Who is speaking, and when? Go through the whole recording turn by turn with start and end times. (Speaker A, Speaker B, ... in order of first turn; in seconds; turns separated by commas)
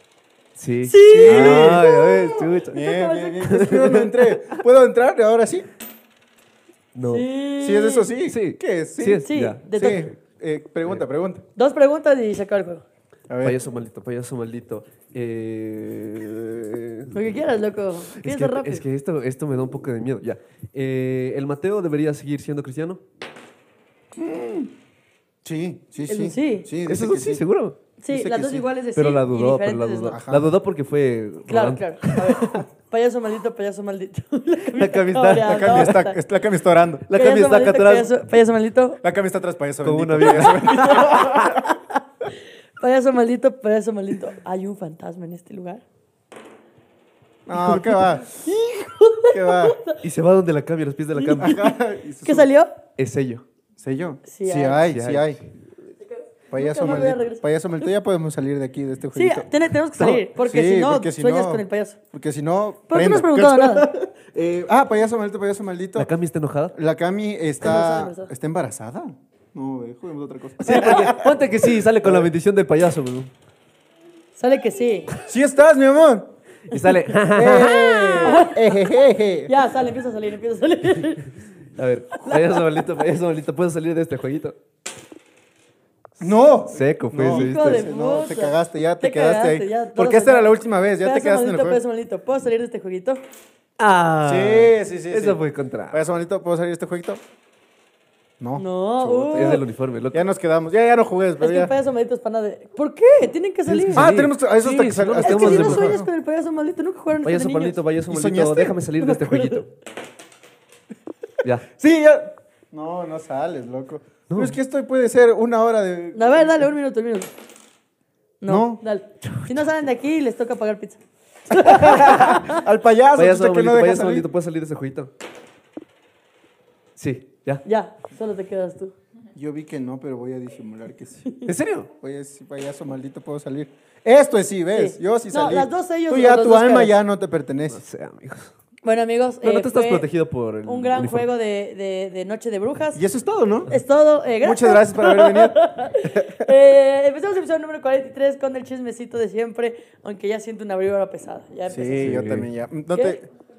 Speaker A: 0.6-2.8, Speaker B: 0.8-3.5, Speaker C: 1.1-2.0, Speaker C: 2.7-5.7, Speaker A: 3.4-4.6, Speaker A: 6.9-7.2, Speaker B: 7.0-8.1, Speaker C: 7.6-11.4, Speaker A: 8.3-9.6, Speaker B: 9.2-10.1, Speaker B: 11.6-12.8, Speaker C: 13.3-13.6, Speaker A: 13.4-17.1, Speaker B: 17.1-18.8, Speaker A: 18.1-23.0, Speaker C: 24.1-24.7, Speaker C: 25.4-27.4, Speaker B: 26.1-26.7, Speaker A: 26.8-27.8, Speaker B: 28.0-30.2, Speaker C: 28.1-28.7, Speaker A: 28.9-32.6, Speaker C: 30.1-30.5, Speaker B: 31.5-36.2, Speaker A: 34.7-36.0, Speaker C: 35.4-37.1, Speaker A: 37.1-38.1, Speaker B: 37.1-39.0, Speaker C: 39.0-41.7, Speaker A: 39.8-41.3, Speaker B: 40.5-42.0, Speaker B: 42.8-45.8, Speaker C: 47.5-48.4, Speaker B: 47.6-50.0, Speaker C: 49.2-49.8, Speaker A: 50.0-51.6, Speaker B: 51.2-52.7, Speaker C: 51.3-52.5, Speaker A: 53.0-53.4, Speaker C: 53.8-55.4, Speaker B: 54.3-54.9, Speaker A: 54.8-55.4, Speaker B: 56.0-57.4, Speaker C: 56.5-59.5, Speaker B: 59.1-62.0, Speaker C: 60.4-66.1, Speaker B: 62.9-63.9, Speaker A: 66.0-66.8, Speaker C: 66.7-71.4, Speaker B: 67.6-68.3, Speaker A: 70.6-73.3, Speaker C: 72.0-72.3, Speaker B: 74.4-75.1, Speaker C: 75.2-76.3, Speaker A: 76.7-78.3, Speaker C: 77.3-79.5, Speaker B: 77.5-78.7, Speaker B: 79.5-81.3, Speaker A: 81.8-84.5, Speaker B: 82.2-82.7, Speaker C: 86.2-91.8, Speaker A: 86.7-87.9, Speaker B: 87.3-93.2, Speaker A: 93.8-96.0, Speaker C: 94.2-97.2, Speaker C: 98.4-101.7, Speaker B: 98.6-99.6, Speaker A: 99.2-100.2, Speaker B: 101.4-104.1, Speaker A: 103.7-106.0, Speaker C: 103.9-106.1, Speaker B: 105.2-107.8, Speaker A: 107.2-109.7, Speaker C: 108.1-108.8, Speaker B: 109.0-109.6, Speaker C: 111.8-116.7, Speaker B: 116.1-117.3, Speaker B: 118.4-122.6, Speaker C: 118.5-118.8, Speaker C: 121.5-124.3, Speaker A: 122.0-122.4, Speaker A: 123.2-125.1, Speaker A: 127.0-127.6, Speaker B: 127.6-128.9, Speaker C: 129.3-131.3, Speaker A: 131.4-131.9, Speaker C: 132.0-137.8, Speaker B: 134.7-137.0, Speaker A: 137.7-138.5, Speaker B: 138.8-140.1, Speaker A: 139.4-141.3, Speaker B: 140.6-143.0, Speaker C: 142.9-143.7, Speaker B: 143.7-152.2, Speaker C: 144.4-146.5, Speaker C: 151.7-153.2, Speaker A: 152.0-152.5, Speaker B: 152.9-153.2